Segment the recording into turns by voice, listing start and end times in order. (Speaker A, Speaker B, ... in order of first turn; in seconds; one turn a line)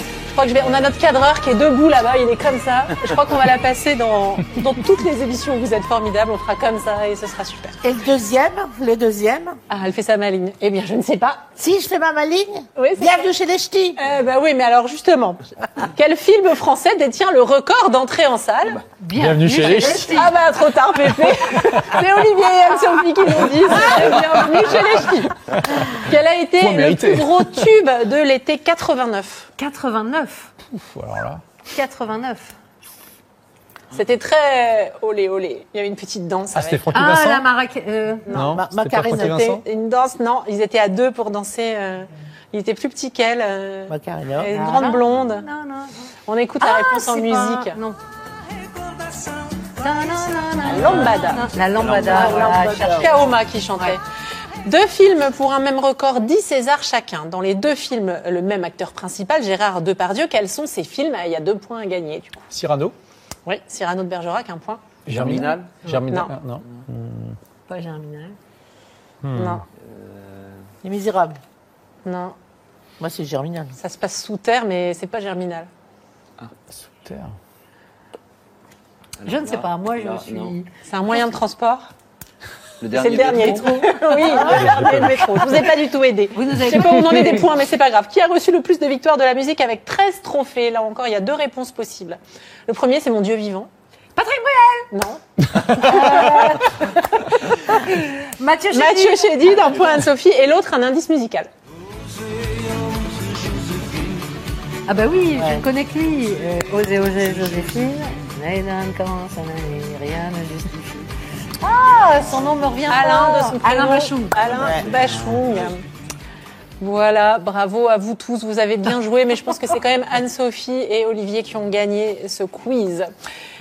Speaker A: 0.3-7.8
Speaker B: 7.8-9.6
Speaker A: 9.7-11.5
Speaker B: 11.6-14.0
Speaker A: 12.8-13.3
Speaker A: 14.0-18.9
Speaker C: 18.9-20.4
Speaker D: 19.1-20.3
Speaker A: 19.8-25.4
Speaker D: 25.5-27.7
Speaker A: 25.9-29.5
Speaker C: 29.6-30.5
Speaker D: 30.7-31.4
Speaker C: 31.7-32.5
Speaker A: 33.9-36.9
Speaker D: 36.5-37.5
Speaker C: 36.9-38.3
Speaker A: 38.3-45.5
Speaker D: 38.3-39.6
Speaker B: 38.5-39.5
Speaker B: 43.9-44.5
Speaker C: 44.5-46.0
Speaker A: 46.3-47.8
Speaker C: 46.6-48.0
Speaker C: 49.6-54.0
Speaker A: 50.6-51.5
Speaker E: 51.6-52.6
Speaker B: 52.0-53.1
Speaker A: 52.2-54.0
Speaker A: 54.6-62.5
Speaker D: 62.5-63.0
Speaker A: 63.5-66.3
Speaker D: 65.1-67.4
Speaker E: 65.1-65.7
Speaker C: 67.7-68.4
Speaker D: 69.2-69.6
Speaker A: 69.3-69.7
Speaker E: 69.8-70.7
Speaker B: 70.8-71.4
Speaker A: 72.0-72.3
Speaker B: 73.0-73.8
Speaker A: 73.8-75.7
Speaker D: 76.7-77.4
Speaker E: 79.2-80.6
Speaker C: 79.2-80.7
Speaker A: 80.8-81.9
Speaker E: 82.8-85.4
Speaker A: 82.9-93.7
Speaker C: 84.2-84.8
Speaker D: 84.5-85.2
Speaker C: 86.3-87.5
Speaker C: 94.2-94.9
Speaker A: 94.9-97.8
Speaker C: 95.8-96.8
Speaker C: 97.7-99.8
Speaker A: 98.7-101.5
Speaker C: 104.9-111.0
Speaker B: 105.3-105.6
Speaker C: 111.6-114.5
Speaker A: 112.9-115.8
Speaker B: 114.5-114.9
Speaker A: 116.8-123.1